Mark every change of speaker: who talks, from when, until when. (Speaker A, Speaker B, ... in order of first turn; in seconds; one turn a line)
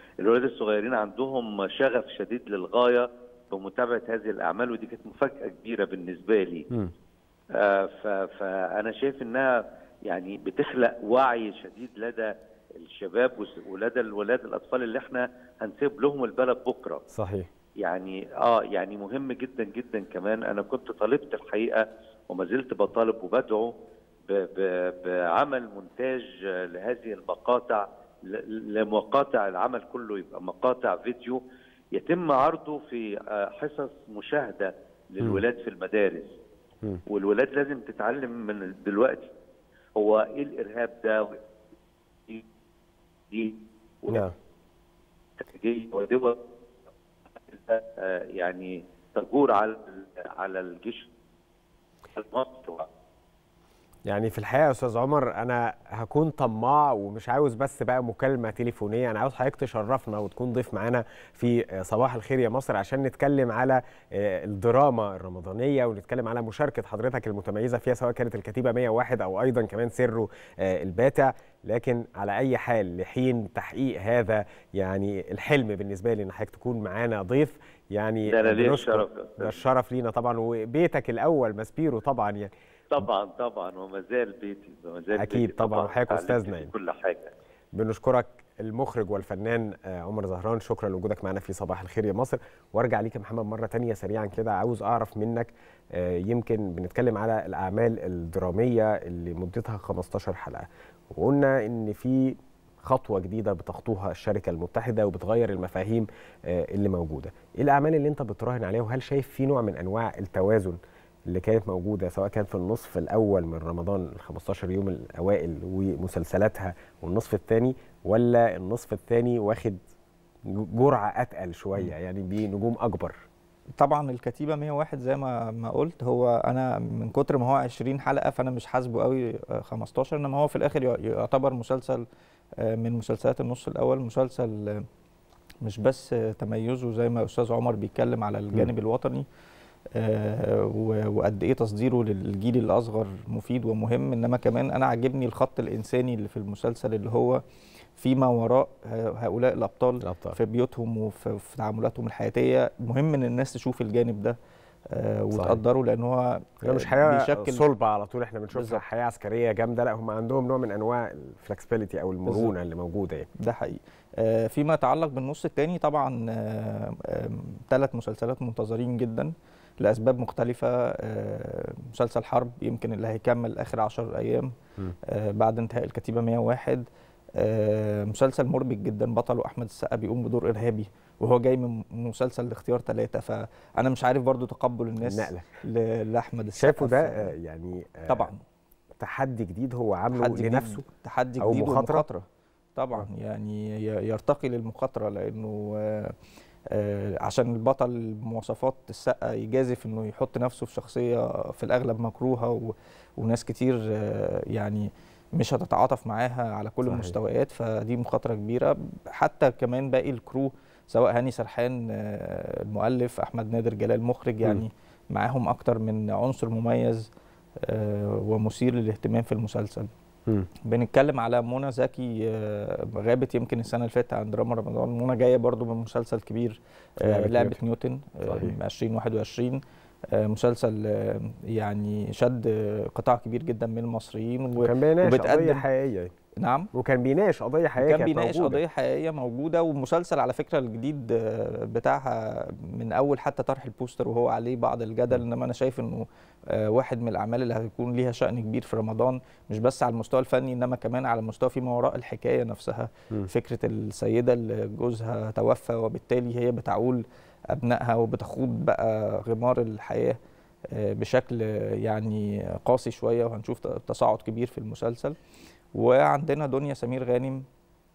Speaker A: 0.2-6.7
Speaker A: 7.5-9.6
Speaker A: 10.1-17.0
Speaker B: 17.1-17.5
Speaker A: 17.8-23.7
Speaker A: 24.3-31.4
Speaker A: 31.9-36.3
Speaker A: 37.1-39.3
Speaker A: 40.0-41.4
Speaker A: 43.3-44.3
Speaker A: 45.4-46.4
Speaker A: 47.5-51.1
Speaker A: 52.1-52.9
Speaker B: 54.1-82.5
Speaker A: 78.3-79.6
Speaker A: 82.9-87.3
Speaker B: 85.1-86.7
Speaker B: 87.8-110.8
Speaker B: 111.3-119.8
Speaker B: 120.5-123.1
Speaker C: 123.8-132.0
Speaker C: 132.6-134.8
Speaker C: 135.6-139.2
Speaker C: 140.0-147.4
Speaker C: 148.0-154.4
Speaker B: 150.0-150.4
Speaker C: 154.9-157.7
Speaker B: 155.3-155.6
Speaker B: 156.6-163.3
Speaker C: 158.5-158.8
Speaker C: 162.3-162.5
Speaker C: 163.4-169.3
Speaker C: 169.8-174.5
Speaker C: 175.1-176.8
Speaker C: 177.4-187.3
Speaker B: 185.0-185.5
Speaker B: 186.6-188.3
Speaker C: 188.1-188.4
Speaker B: 189.0-190.8
Speaker C: 190.1-192.2
Speaker B: 191.4-192.1
Speaker C: 192.8-196.1
Speaker C: 196.7-217.1
Speaker B: 206.8-207.1
Speaker C: 217.6-219.9
Speaker C: 220.7-229.6
Speaker B: 227.0-227.6
Speaker B: 228.2-228.6
Speaker C: 230.1-235.7
Speaker B: 234.6-236.1
Speaker C: 236.4-236.7
Speaker B: 236.7-238.6
Speaker C: 237.8-257.0
Speaker C: 257.5-260.2
Speaker C: 260.8-265.1
Speaker C: 265.8-267.4